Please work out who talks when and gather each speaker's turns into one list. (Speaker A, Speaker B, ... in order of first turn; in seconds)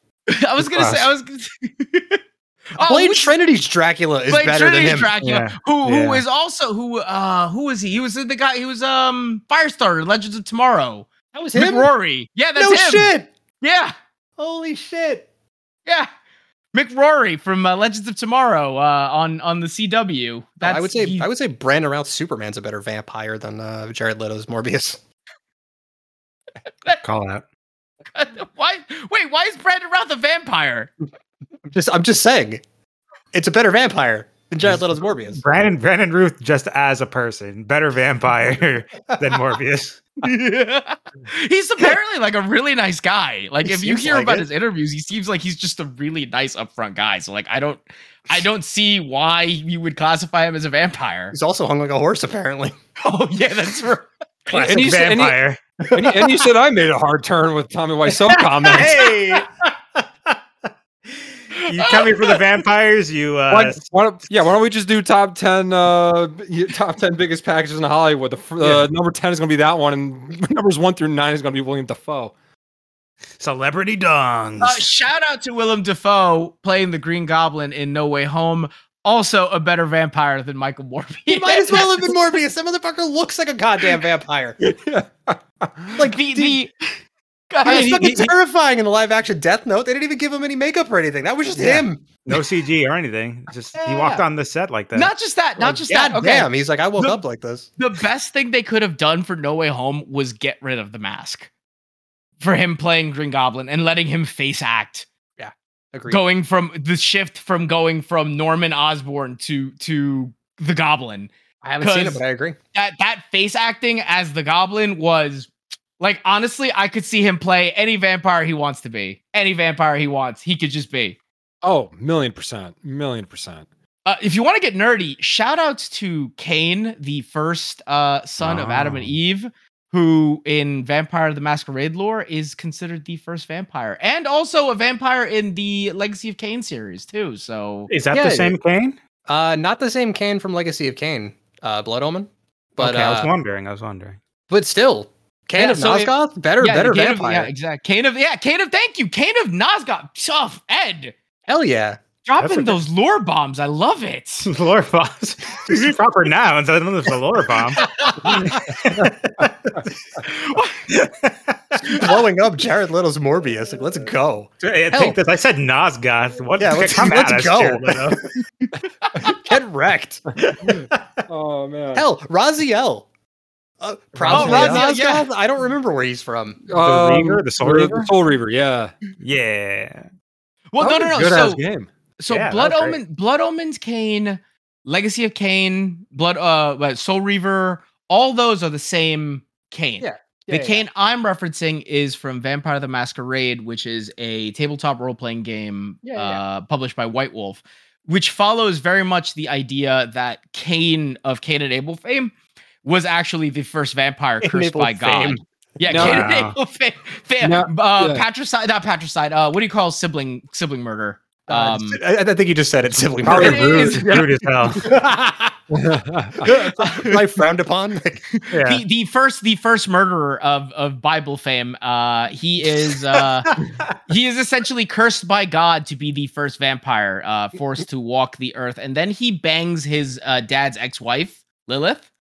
Speaker A: 0.3-2.2, 2.8-3.3, 4.3-13.9, 16.7-21.3, 28.1-30.9, 40.2-51.4, 53.0-54.1, 61.5-62.4, 74.6-82.2, 86.0-87.0, 87.5-88.2, 93.8-94.2, 94.9-97.2, 97.8-101.5, 102.4-105.1, 106.1-112.2, 112.7-121.2, 124.0-137.9, 145.6-151.2, 152.2-154.5, 157.8-158.4, 160.2-160.8, 169.0-169.4, 174.3-175.3, 180.7-181.6, 182.2-212.0, 213.3-214.2, 216.8-217.2, 218.3-223.6, 224.1-232.1
Speaker B: 0.6-1.1, 5.2-6.2, 27.0-27.4, 34.6-40.2, 54.5-55.6, 58.6-59.5, 61.6-63.8, 68.6-68.9, 73.4-74.9, 91.6-95.1, 128.4-129.1, 137.9-139.0, 142.8-144.2, 152.4-152.8, 154.4-159.7, 160.9-162.0, 164.6-168.2, 174.2-174.8, 176.8-178.1, 179.2-180.1, 182.3-183.0, 205.9-206.6, 214.0-214.9, 218.5-218.8
Speaker C: 2.8-5.1, 11.3-11.9, 12.6-13.3, 14.4-15.3, 20.6-25.0, 31.7-32.6, 33.3-35.4, 43.6-44.5, 51.3-52.8, 55.9-56.3, 58.8-59.4, 81.3-84.6, 86.0-86.6, 87.7-92.1, 95.6-97.7, 105.4-106.2, 111.6-112.6, 138.1-138.6, 139.3-143.3, 144.5-147.5, 151.5-152.0, 158.2-158.5, 161.9-165.2, 166.6-168.3, 169.2-170.8, 171.9-173.1, 173.8-176.6, 190.0-190.8, 196.0-196.4, 204.4-205.4, 211.5-214.1, 214.8-215.6, 216.4-218.3
Speaker D: 54.5-55.4, 55.9-59.1, 63.5-72.3, 84.6-86.1, 87.7-88.3, 121.6-123.7, 170.6-172.1, 176.7-178.9, 180.8-181.9, 205.9-206.3, 207.4-208.2, 213.2-214.5, 215.7-216.5